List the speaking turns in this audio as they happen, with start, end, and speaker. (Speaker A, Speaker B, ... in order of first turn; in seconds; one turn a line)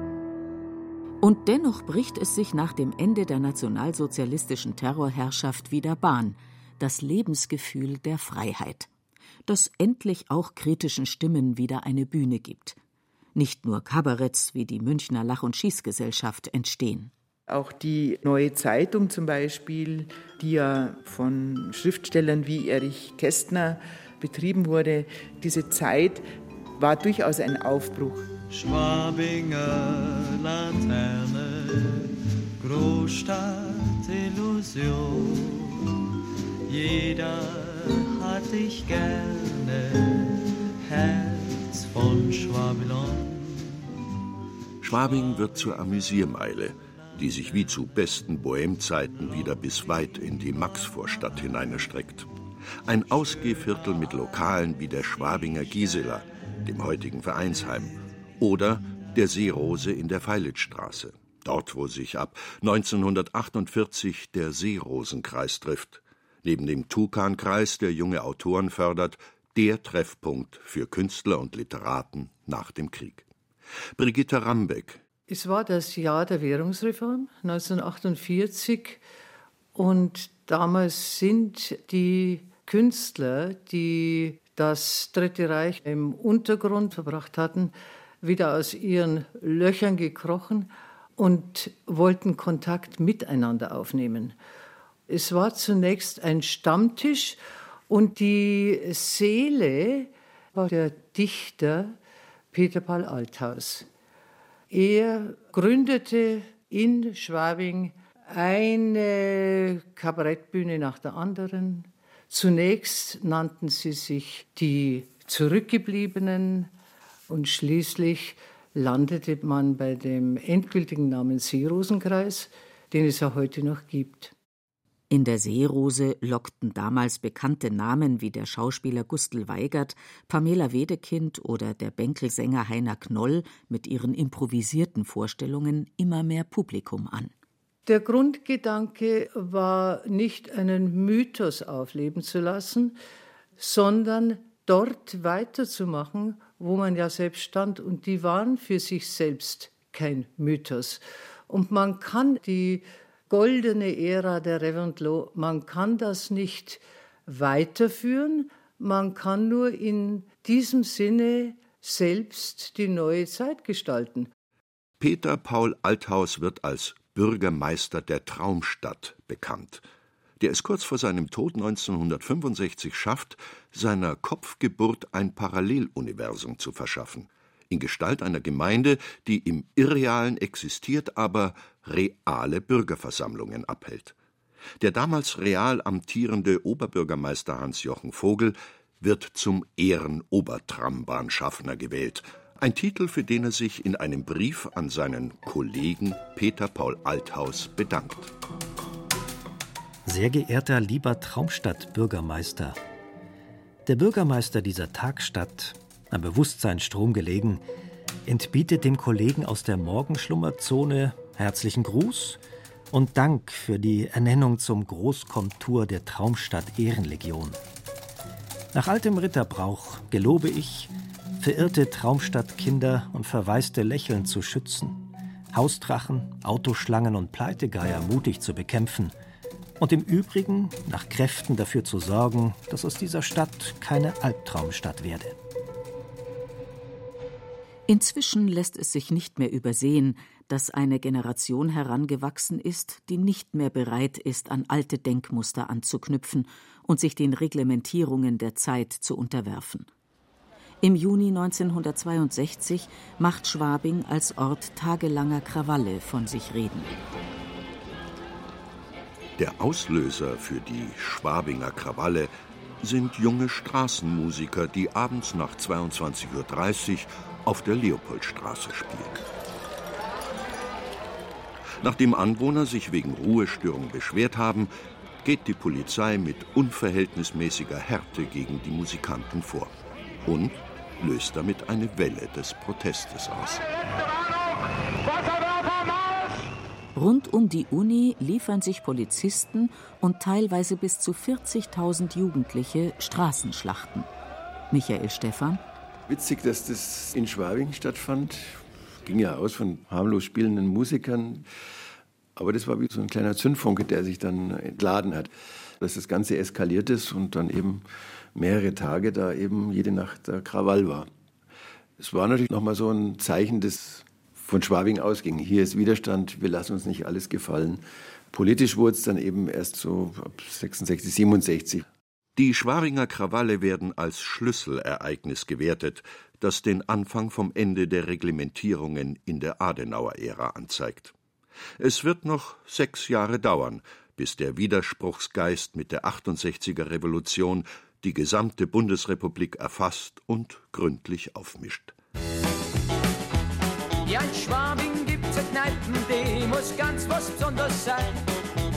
Speaker A: 1.2-8.9
Speaker A: 9.5-12.8
Speaker A: 13.4-17.1
Speaker B: 17.5-26.3
Speaker B: 26.8-28.3
Speaker C: 28.5-35.9
Speaker C: 36.7-43.9
Speaker D: 44.8-52.3
Speaker D: 52.9-73.3
Speaker D: 74.0-75.0
Speaker E: 75.3-79.0
Speaker E: 79.8-94.4
Speaker E: 95.1-97.4
Speaker E: 97.9-102.0
Speaker E: 102.5-103.9
Speaker E: 104.7-116.7
Speaker E: 117.3-124.3
Speaker A: 125.1-137.3
Speaker E: 137.9-143.0
Speaker E: 143.6-164.3
Speaker D: 165.0-169.8
Speaker D: 170.4-184.2
Speaker D: 184.8-198.3
Speaker F: 200.1-202.8
Speaker F: 203.8-207.6
Speaker F: 208.3-212.4
Speaker F: 212.9-217.6
Speaker F: 218.7-229.2
Speaker F: 229.8-235.4
Speaker A: 237.9-249.9
Speaker A: 250.8-256.9
Speaker D: 259.4-269.2
Speaker D: 271.8-274.7
Speaker D: 275.2-279.7
Speaker D: 280.3-283.6
Speaker A: 286.9-294.1
Speaker A: 294.7-295.6
Speaker G: 296.1-301.5
Speaker G: 302.4-311.1
Speaker G: 312.0-321.9
Speaker D: 322.4-331.1
Speaker D: 331.8-341.9
Speaker H: 344.0-348.2